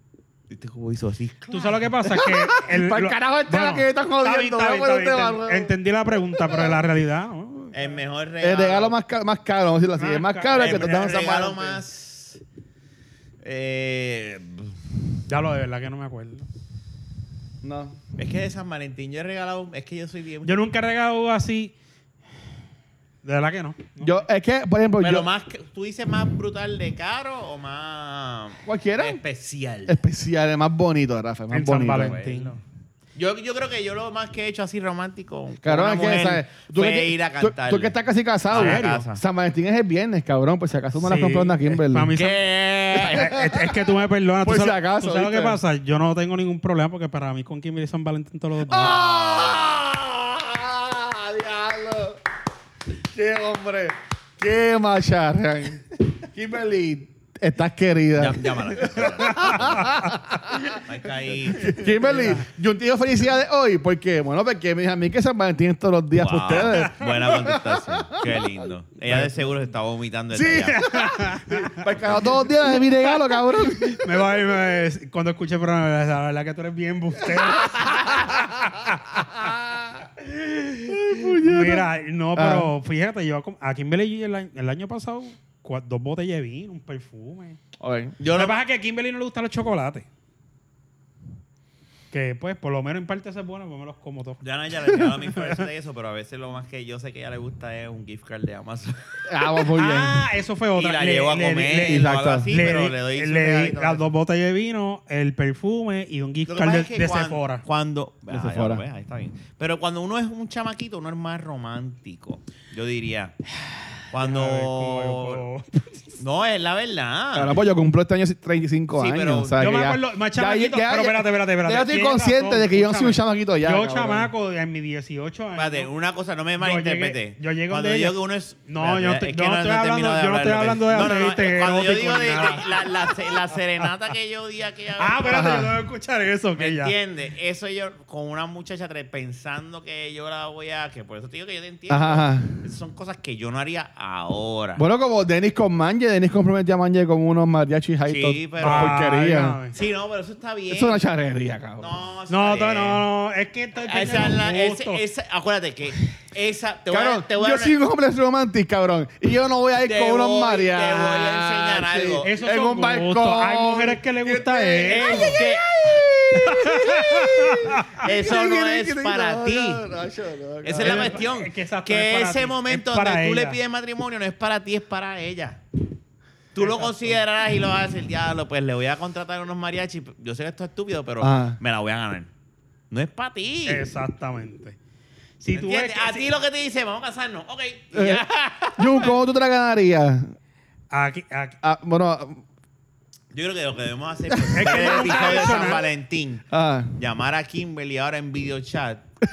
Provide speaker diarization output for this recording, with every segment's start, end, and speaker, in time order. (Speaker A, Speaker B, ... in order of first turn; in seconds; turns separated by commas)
Speaker A: 0.5-1.8, Speaker B: 1.5-8.0, Speaker C: 2.0-5.7, Speaker C: 6.3-6.8, Speaker A: 7.7-8.9, Speaker C: 8.4-11.8, Speaker B: 10.0-11.1, Speaker A: 10.5-12.4, Speaker A: 13.4-14.8, Speaker B: 15.3-16.5, Speaker C: 17.6-18.0, Speaker A: 18.2-20.6, Speaker B: 20.4-21.7, Speaker B: 23.2-24.1, Speaker C: 24.0-25.3, Speaker A: 25.0-30.0, Speaker C: 28.6-29.2, Speaker C: 29.9-32.2, Speaker B: 31.5-32.5, Speaker A: 31.9-32.6, Speaker A: 33.2-38.0, Speaker C: 35.6-42.1, Speaker A: 38.5-39.2, Speaker B: 38.5-39.0, Speaker B: 41.0-42.4, Speaker A: 42.1-43.3, Speaker B: 42.9-49.0, Speaker C: 43.0-43.8, Speaker C: 44.4-45.6, Speaker C: 48.7-52.2, Speaker A: 49.1-49.6, Speaker C: 53.1-60.8, Speaker A: 58.1-59.9, Speaker A: 60.8-62.4, Speaker C: 61.5-68.5, Speaker A: 66.2-70.9, Speaker B: 66.6-67.3, Speaker C: 70.3-74.2, Speaker B: 70.7-71.8, Speaker B: 72.6-72.9, Speaker B: 73.7-79.3, Speaker C: 77.4-78.5, Speaker C: 79.4-80.0, Speaker B: 80.2-87.6, Speaker C: 80.9-82.7, Speaker C: 87.8-88.2, Speaker A: 88.2-88.6, Speaker B: 88.3-90.1, Speaker B: 92.1-95.7, Speaker A: 94.4-99.1, Speaker C: 99.3-100.3, Speaker B: 99.6-107.6, Speaker A: 100.8-104.0, Speaker C: 101.9-102.5, Speaker A: 106.5-113.3, Speaker C: 108.3-108.8, Speaker A: 114.1-115.4, Speaker B: 114.1-116.2, Speaker A: 116.2-117.6, Speaker C: 117.3-124.3, Speaker A: 118.9-119.7, Speaker B: 119.6-125.9, Speaker A: 125.5-135.6, Speaker B: 126.6-133.6, Speaker B: 135.0-136.9, Speaker C: 135.2-135.8, Speaker A: 136.6-144.8, Speaker C: 141.9-142.6, Speaker C: 144.8-149.6, Speaker A: 148.1-149.1, Speaker B: 148.6-149.8, Speaker A: 149.7-151.0, Speaker C: 150.7-151.9, Speaker A: 151.8-153.0, Speaker B: 152.3-155.0, Speaker A: 153.8-157.8, Speaker C: 156.9-171.2, Speaker A: 159.8-162.3, Speaker B: 162.2-165.4, Speaker A: 164.9-166.6, Speaker B: 166.4-168.0, Speaker A: 168.0-169.8, Speaker A: 170.6-175.6, Speaker B: 170.8-173.6, Speaker A: 176.6-182.3, Speaker B: 176.6-177.2, Speaker C: 181.2-181.6, Speaker A: 182.9-183.8, Speaker B: 183.7-184.8, Speaker B: 185.4-186.3, Speaker A: 185.5-189.1, Speaker C: 187.9-188.2, Speaker C: 188.8-190.3, Speaker B: 190.9-191.6, Speaker C: 191.6-192.4, Speaker A: 193.3-196.4, Speaker C: 194.3-195.7, Speaker B: 194.5-195.8, Speaker C: 196.5-197.0, Speaker A: 197.0-199.1